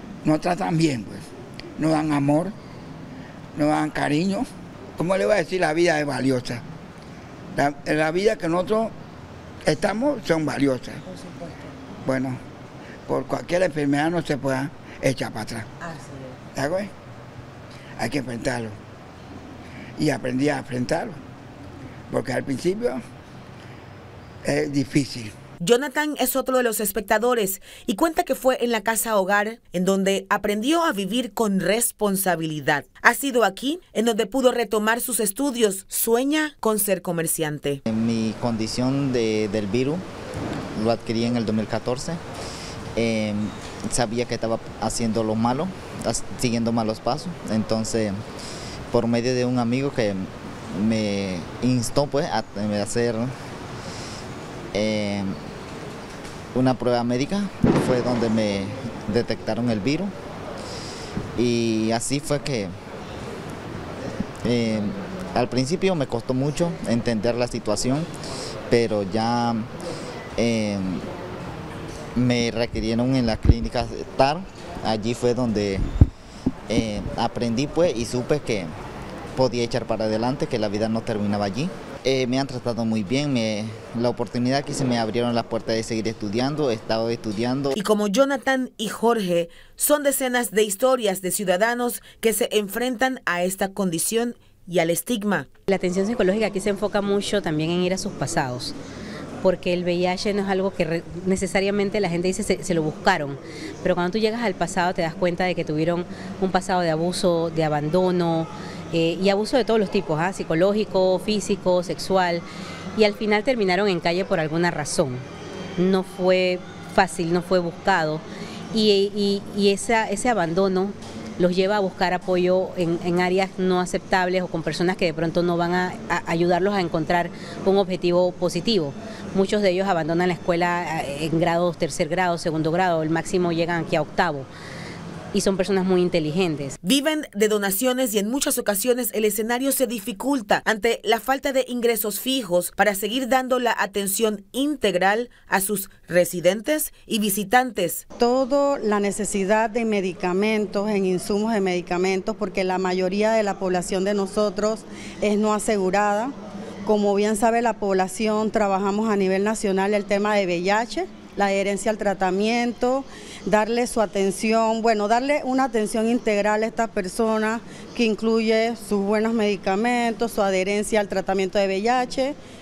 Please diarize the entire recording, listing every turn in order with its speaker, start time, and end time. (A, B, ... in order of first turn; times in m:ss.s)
0:00.2-0:02.5 A
0:03.5-0:06.6 A
0:07.5-0:08.9 A
0:09.6-0:11.0 A
0:12.0-0:12.4 A
0:13.1-0:15.7 A
0:16.5-0:16.9 A
0:18.0-0:18.8 A
0:20.0-0:21.2 A
0:22.1-0:23.0 A
0:24.4-0:25.3 A
0:25.6-0:37.8 B
0:37.9-0:40.0 C
0:40.7-0:42.2 C
0:43.0-0:48.2 C
0:48.9-0:53.3 C
0:54.7-0:55.3 C
0:56.5-1:00.1 C
1:01.4-1:02.7 C
1:04.4-1:08.1 C
1:08.7-1:09.7 C
1:10.4-1:11.1 C
1:12.2-1:15.8 C
1:16.7-1:18.7 C
1:19.4-1:27.8 C
1:27.7-1:35.5 B
1:35.7-1:38.7 D
1:39.4-1:52.4 D
1:53.0-1:55.2 D
1:55.8-2:14.5 D
2:15.3-2:16.8 D
2:16.8-2:28.0 B
2:28.2-2:36.3 E
2:36.8-2:52.4 E